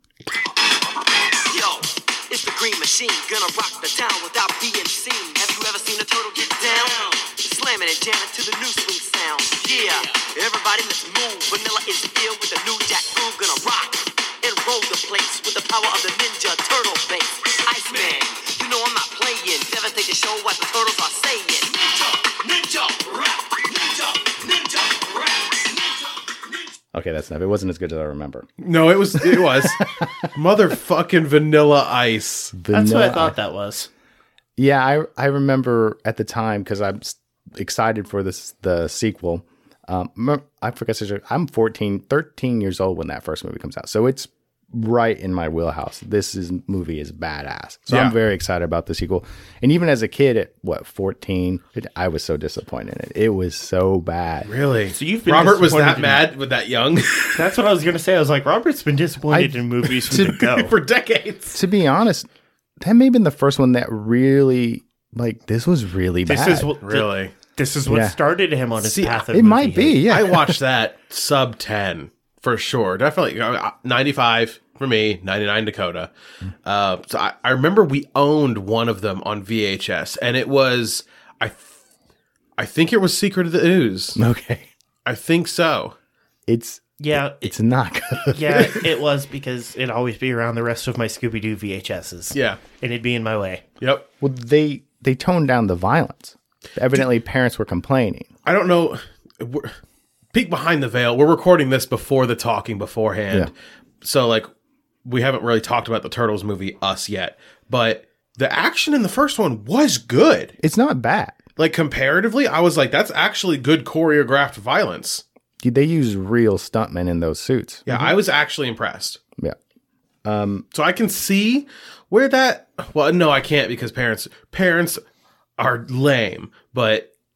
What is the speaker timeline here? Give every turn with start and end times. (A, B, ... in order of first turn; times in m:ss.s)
0:01.4-0:26.7 A
0:26.9-0:28.5 B
0:28.6-0:32.5 C
0:29.1-0:30.3 B
0:32.5-0:33.4 B
0:32.7-0:33.9 D
0:34.6-0:54.5 B
0:47.9-0:48.1 C
0:54.4-0:57.4 C
0:54.9-0:56.3 D
0:57.3-1:00.7 D
0:59.3-1:00.4 B
1:00.5-1:01.6 C
1:01.5-1:02.3 B
1:02.8-1:06.7 B
1:06.2-1:10.1 D
1:06.8-1:07.3 C
1:07.9-1:08.2 B
1:08.8-1:09.3 C
1:09.3-1:10.6 B
1:10.0-1:16.1 C
1:16.6-1:21.8 C
1:22.6-1:24.2 C
1:24.1-1:24.7 B
1:25.0-1:25.9 C
1:26.5-1:28.9 B
1:27.0-1:27.5 D
1:28.2-1:33.6 D
1:32.3-1:32.6 C
1:33.8-1:34.1 C
1:34.2-1:38.3 B
1:38.4-1:39.8 C
1:40.3-1:44.5 C
1:45.0-1:50.5 C
1:50.6-1:51.4 B
1:51.6-1:55.2 C
1:55.6-1:58.1 B
1:57.8-1:59.2 C
2:00.2-2:00.6 B
2:00.7-2:05.0 C
2:05.6-2:07.1 C